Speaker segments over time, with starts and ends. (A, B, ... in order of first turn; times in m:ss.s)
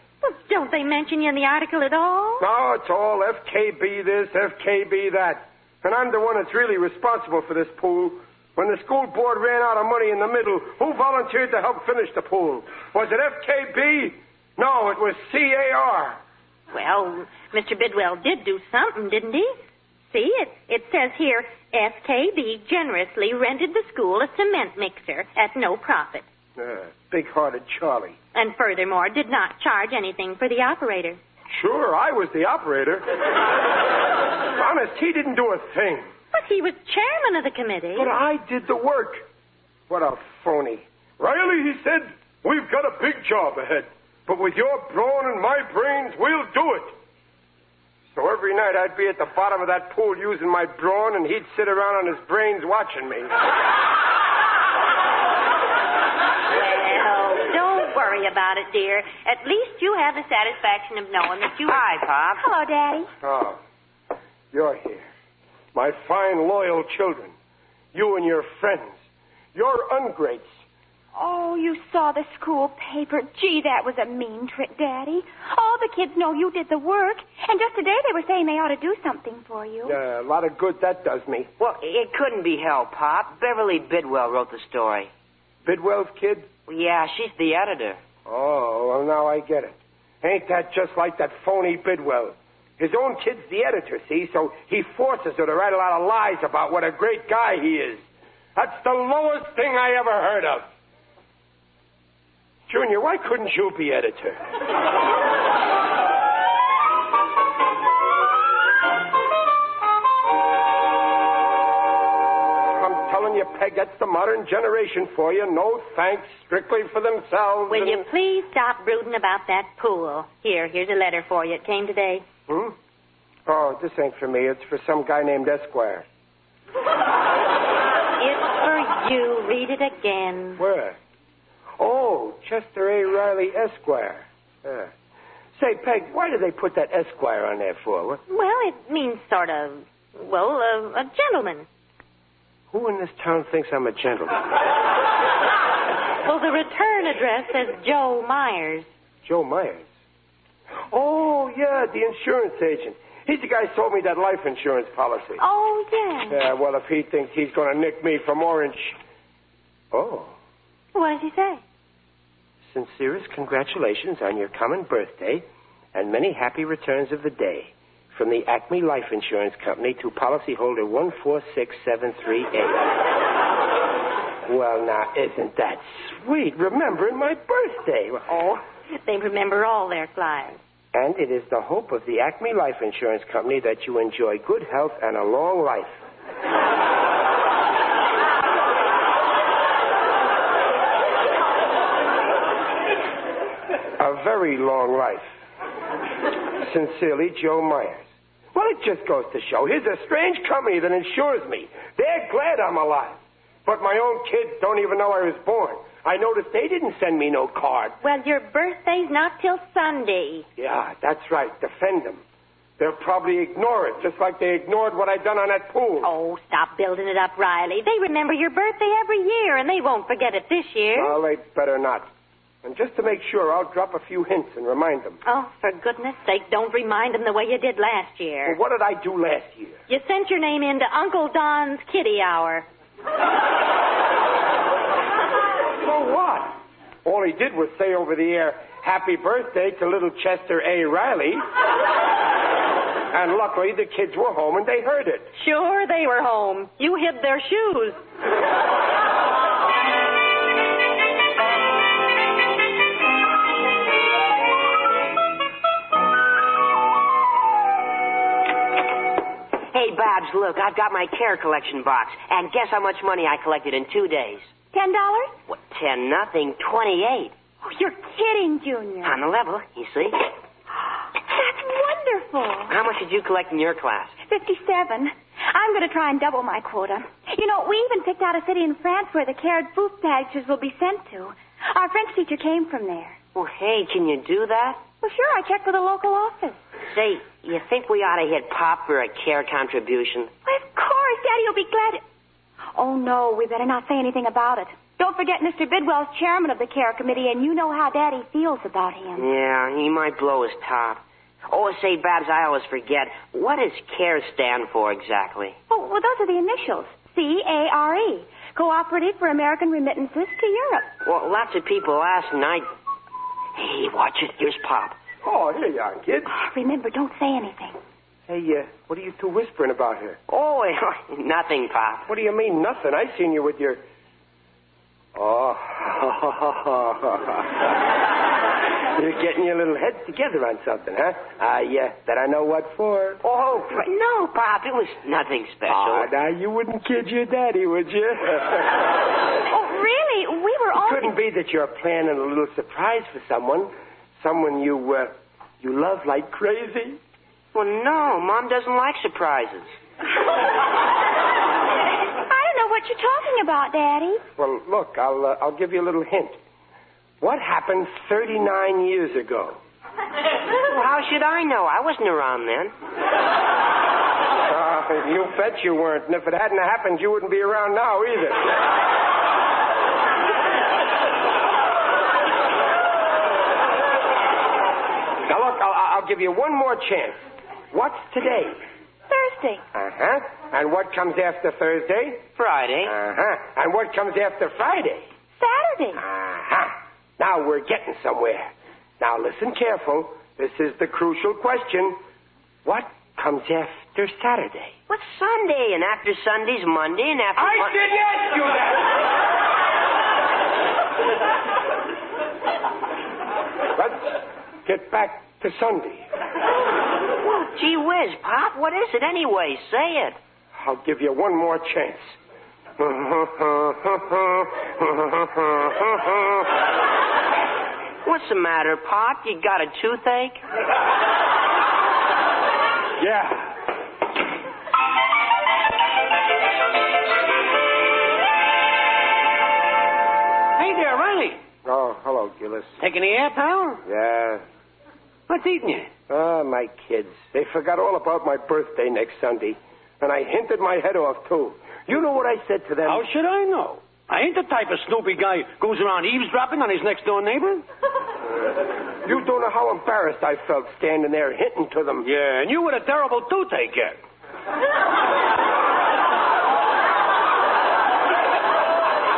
0:00.2-0:02.5 A
0:02.4-0:16.2 B
0:16.7-0:19.6 A
0:20.1-0:26.2 A
0:26.6-0:28.2 B
0:28.3-0:31.2 A
0:31.5-0:33.1 B
0:34.5-0:36.1 B
0:36.3-0:38.1 A
0:38.0-0:39.3 B
0:39.9-0:47.0 B
0:48.2-0:53.3 B
0:56.5-1:01.8 A
1:01.7-1:02.4 C
1:02.4-1:03.1 D
1:03.2-1:03.6 B
1:04.5-1:05.1 B
1:05.7-1:07.3 B
1:07.9-1:09.0 B
1:09.5-1:10.6 B
1:11.1-1:20.0 D
1:19.8-1:21.5 B
1:21.6-1:25.1 C
1:25.6-1:26.5 B
1:26.7-1:28.0 C
1:28.3-1:38.0 B
1:38.6-1:40.7 B
1:42.7-1:44.4 B
1:52.7-1:58.1 B
1:57.7-2:02.2 A
2:02.5-2:02.8 B
2:03.5-2:06.1 B
2:08.2-2:10.6 A
2:10.6-2:11.0 B
2:11.8-2:14.9 B
2:15.6-2:18.2 B
2:18.3-2:21.7 A
2:22.7-2:24.4 B
2:26.2-2:28.9 A
2:29.2-2:29.9 B
2:30.9-2:35.4 B
2:35.4-2:36.4 D
2:36.3-2:39.0 B
2:39.9-2:40.4 B
2:41.0-2:41.6 A
2:42.7-2:53.0 B
2:54.5-2:58.3 B
2:58.3-3:00.6 A
3:00.9-3:06.0 B
3:14.0-3:15.3 B
3:16.6-3:28.0 B
3:28.0-3:30.5 A
3:30.6-3:32.2 B
3:32.8-3:36.1 B
3:36.0-3:41.2 A
3:41.0-3:42.1 B
3:42.6-3:45.2 B
3:45.2-3:48.6 A
3:48.5-3:49.8 B
3:49.9-3:52.7 A
3:55.8-4:01.5 B
4:03.1-4:05.3 B
4:05.4-4:08.0 A
4:19.7-4:24.5 C
4:24.7-4:25.4 D
4:25.5-4:27.3 C
4:27.6-4:29.2 D
4:29.0-4:30.2 C
4:31.2-4:32.8 D
4:32.7-4:34.2 C
4:34.2-4:43.2 D
4:43.4-4:44.8 C
4:45.0-4:46.6 D
4:46.9-4:50.3 C
4:50.5-4:52.0 D
4:52.8-4:59.3 D
4:59.2-5:05.6 C
5:05.7-5:10.9 D
5:11.0-5:12.7 C
5:13.6-5:15.0 C
5:15.2-5:16.3 B
5:16.3-5:17.8 D
5:18.3-5:20.2 B
5:20.3-5:22.1 C
5:22.1-5:23.8 B
5:25.2-5:27.6 B
5:28.9-5:33.2 B
5:33.2-5:36.1 C
5:35.7-5:38.8 B
5:39.5-5:41.1 D
5:40.8-5:47.0 B
5:47.5-5:49.7 C
5:52.2-5:54.2 D
5:54.4-5:56.4 B
5:57.2-5:59.6 B
6:00.6-6:02.7 C
6:04.5-6:08.6 B
6:15.3-6:18.6 B
6:19.1-6:19.6 D
6:19.7-6:22.3 B
6:22.4-6:23.0 C
6:22.8-6:25.1 B
6:25.4-6:26.0 D
6:26.0-6:32.0 B
6:32.6-6:34.8 B
6:34.9-6:37.8 C
6:37.4-6:38.9 B
6:43.8-6:46.1 B
6:47.2-6:50.2 C
6:50.6-6:52.2 B
6:52.8-6:56.5 B
6:58.0-7:00.4 C
7:03.0-7:03.5 B
7:10.6-7:11.4 E
7:11.6-7:12.8 B
7:12.8-7:13.8 E
7:13.8-7:14.4 B
7:15.3-7:15.9 E
7:16.1-7:23.1 B
7:22.9-7:27.6 E
7:29.0-7:32.1 B
7:32.0-7:34.0 E